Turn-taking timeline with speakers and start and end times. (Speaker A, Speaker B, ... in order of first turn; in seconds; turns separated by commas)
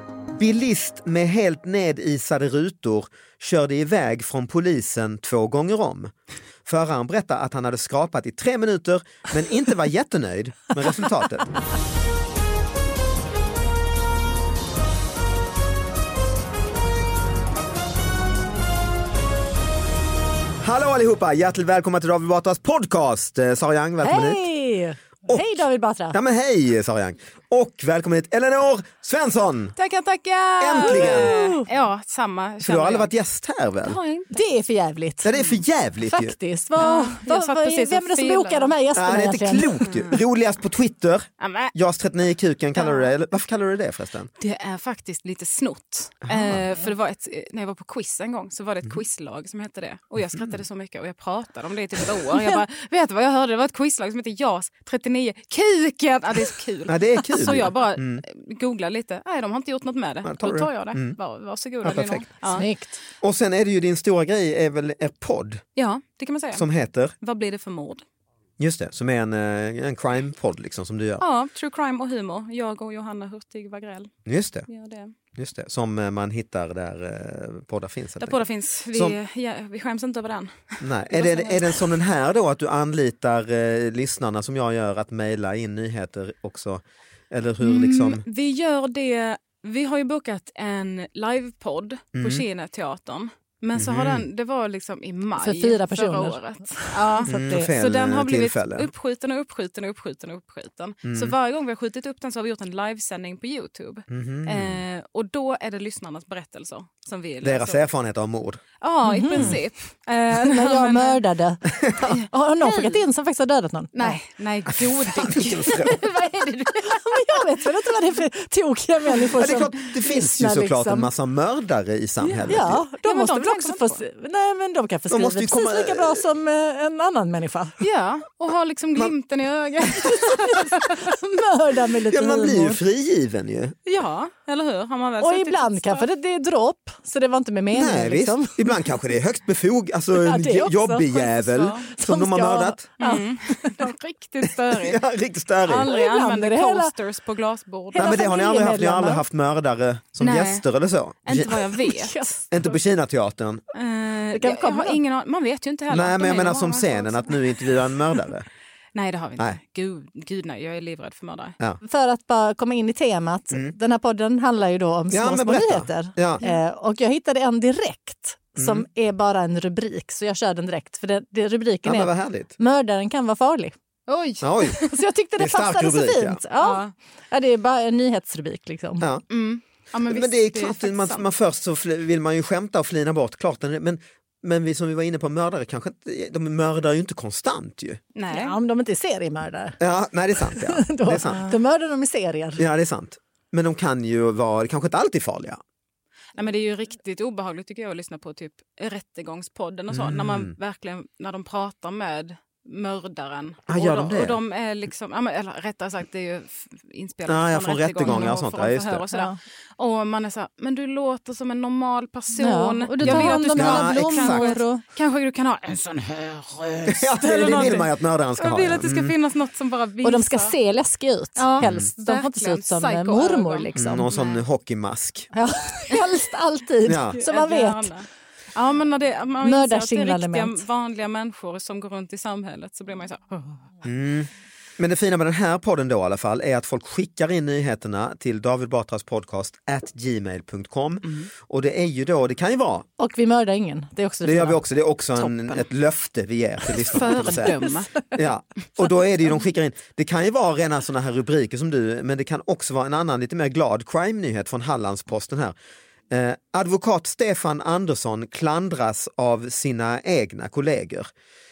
Speaker A: 0.4-6.1, Speaker A: 6.7-11.5, Speaker A: 20.6-24.5, Speaker B: 24.0-26.2, Speaker A: 26.1-29.8, Speaker C: 29.8-33.1, Speaker A: 30.6-31.3, Speaker B: 30.8-31.7, Speaker A: 32.6-34.0, Speaker C: 33.8-34.3, Speaker B: 34.3-35.4, Speaker A: 35.2-36.4, Speaker B: 36.1-39.8, Speaker C: 36.8-38.8, Speaker A: 39.0-44.3, Speaker C: 41.4-41.8, Speaker C: 42.8-43.1, Speaker C: 44.4-62.7, Speaker A: 46.3-46.6, Speaker A: 56.9-58.2, Speaker A: 60.2-61.2, Speaker A: 61.8-62.3, Speaker B: 62.4-63.0, Speaker A: 63.2-65.6, Speaker C: 65.8-66.7, Speaker A: 66.5-67.1, Speaker C: 67.2-68.0, Speaker A: 68.6-71.2, Speaker C: 71.2-74.1, Speaker A: 74.2-74.7, Speaker C: 74.7-75.1, Speaker A: 75.3-78.4, Speaker C: 78.2-81.8, Speaker A: 80.8-88.2, Speaker C: 87.6-107.8, Speaker A: 92.2-92.5, Speaker A: 93.8-94.3, Speaker B: 95.4-97.7, Speaker A: 97.3-98.9, Speaker A: 101.0-101.3, Speaker A: 104.1-104.8, Speaker A: 107.4-108.6, Speaker C: 108.8-111.2, Speaker B: 109.0-109.6, Speaker A: 109.3-109.6, Speaker B: 110.3-114.2, Speaker A: 111.7-112.2, Speaker C: 112.1-113.0, Speaker C: 113.9-117.5, Speaker A: 114.8-116.0, Speaker B: 116.8-121.1, Speaker A: 119.4-122.8, Speaker C: 122.2-124.0, Speaker B: 122.5-127.8, Speaker A: 125.1-126.2, Speaker C: 127.8-130.9, Speaker B: 130.0-132.8, Speaker A: 132.1-133.8, Speaker C: 133.9-136.1, Speaker B: 135.2-138.8, Speaker A: 137.7-142.9, Speaker B: 140.2-143.9, Speaker C: 141.4-141.9, Speaker C: 143.0-145.0, Speaker A: 144.4-145.9, Speaker C: 145.6-148.2, Speaker B: 145.9-146.9, Speaker B: 147.9-149.2, Speaker A: 147.9-151.7, Speaker C: 150.2-150.7, Speaker C: 151.3-152.4, Speaker B: 151.8-152.4, Speaker A: 152.5-153.6, Speaker C: 153.7-157.4, Speaker B: 154.3-155.0, Speaker A: 155.9-158.5, Speaker C: 158.9-161.6, Speaker B: 161.8-173.7, Speaker A: 165.1-166.4, Speaker A: 168.6-168.8, Speaker A: 171.8-172.5, Speaker C: 174.1-175.0, Speaker A: 174.4-174.8, Speaker B: 174.8-179.1, Speaker A: 175.4-176.4, Speaker C: 176.6-176.9, Speaker C: 179.3-181.2, Speaker A: 180.1-188.0, Speaker C: 188.2-188.6, Speaker B: 188.3-189.8, Speaker A: 189.8-191.4, Speaker B: 190.5-192.6, Speaker C: 191.3-191.6, Speaker A: 192.6-195.6, Speaker C: 196.3-220.6, Speaker A: 199.9-200.5, Speaker A: 203.7-204.4, Speaker A: 207.3-209.1, Speaker B: 208.1-208.3, Speaker B: 209.1-209.4, Speaker B: 212.4-214.8, Speaker A: 213.0-214.5, Speaker A: 216.9-219.2, Speaker B: 220.0-224.1, Speaker C: 221.4-224.4, Speaker A: 221.6-221.9, Speaker A: 223.8-225.3, Speaker B: 225.3-227.9, Speaker A: 226.9-227.2, Speaker C: 227.2-233.6, Speaker B: 229.4-230.6, Speaker A: 233.8-242.9, Speaker C: 241.1-241.3, Speaker B: 243.0-244.6, Speaker A: 244.2-247.6, Speaker C: 245.2-245.6, Speaker C: 246.7-247.9, Speaker B: 247.4-247.7, Speaker A: 248.1-255.6, Speaker A: 256.1-261.1